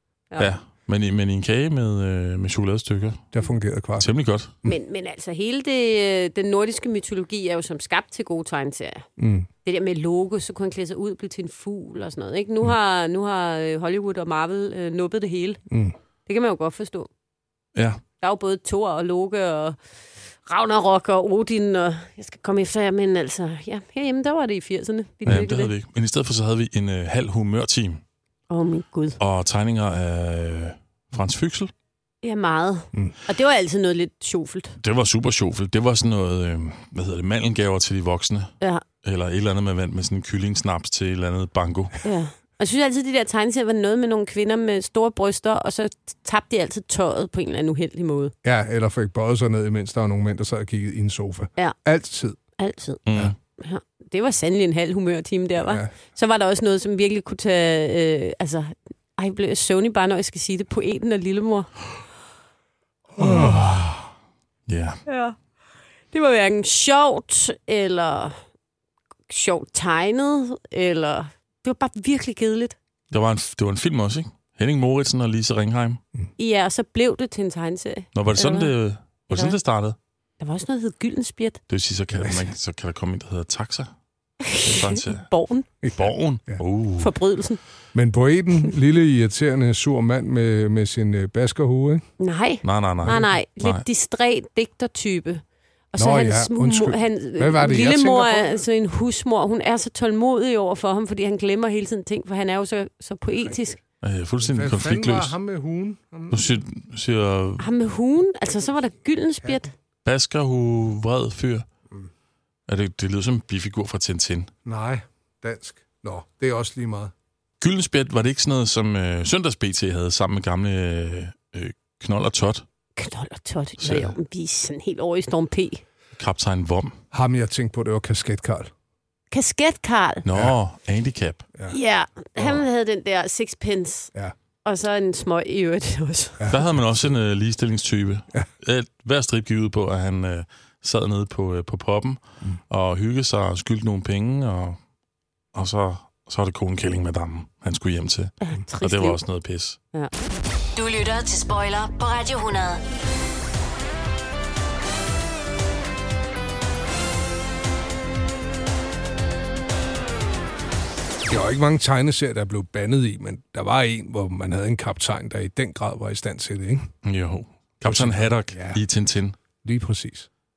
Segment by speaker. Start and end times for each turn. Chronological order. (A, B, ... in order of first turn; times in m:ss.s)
0:00.4-0:03.2 A
0:03.3-0:04.1 B
0:04.0-0:04.5 A
0:04.6-0:09.0 C
0:09.2-0:09.5 B
0:09.6-0:15.6 C
0:15.7-0:15.9 B
0:16.2-0:17.1 C
0:17.7-0:18.0 A
0:18.2-0:19.8 C
0:20.4-0:25.7 C
0:25.2-0:28.0 A
0:28.5-0:29.2 C
0:29.2-0:31.7 A
0:32.2-0:34.7 C
0:34.8-0:42.0 A
0:42.0-0:48.3 C
0:48.4-0:52.4 B
0:52.6-0:53.0 C
0:53.0-0:53.3 A
0:53.6-1:01.7 C
0:55.6-0:55.9 B
1:03.2-1:03.8 B
1:03.2-1:04.0 A
1:04.7-1:05.0 A
1:05.1-1:05.4 C
1:06.1-1:08.4 C
1:09.3-1:12.8 C
1:13.1-1:16.0 A
1:16.4-1:18.7 C
1:18.1-1:20.0 A
1:20.4-1:21.6 C
1:21.7-1:23.9 A
1:22.1-1:22.4 B
1:24.4-1:25.6 C
1:24.6-1:25.3 A
1:25.8-1:26.6 B
1:26.0-1:27.1 A
1:27.0-1:27.6 C
1:27.9-1:32.0 B
1:32.2-1:35.4 C
1:32.6-1:33.8 A
1:35.9-1:43.8 C
1:36.0-1:38.6 B
1:44.0-1:45.3 A
1:44.4-1:46.5 B
1:46.3-1:47.7 A
1:47.6-1:49.7 C
1:50.0-1:51.6 A
1:52.7-1:54.5 A
1:54.6-1:57.1 B
1:57.6-2:02.6 A
2:03.0-2:05.8 C
2:03.8-2:04.1 A
2:06.2-2:06.9 A
2:07.1-2:08.7 B
2:09.3-2:10.2 C
2:10.2-2:11.4 A
2:11.7-2:14.1 C
2:14.6-2:16.5 C
2:16.5-2:24.8 A
2:25.5-2:29.8 A
2:28.4-2:29.2 C
2:30.7-2:32.8 D
2:41.3-2:46.9 B
2:47.0-2:49.4 A
2:47.8-2:48.8 B
2:49.6-2:50.3 B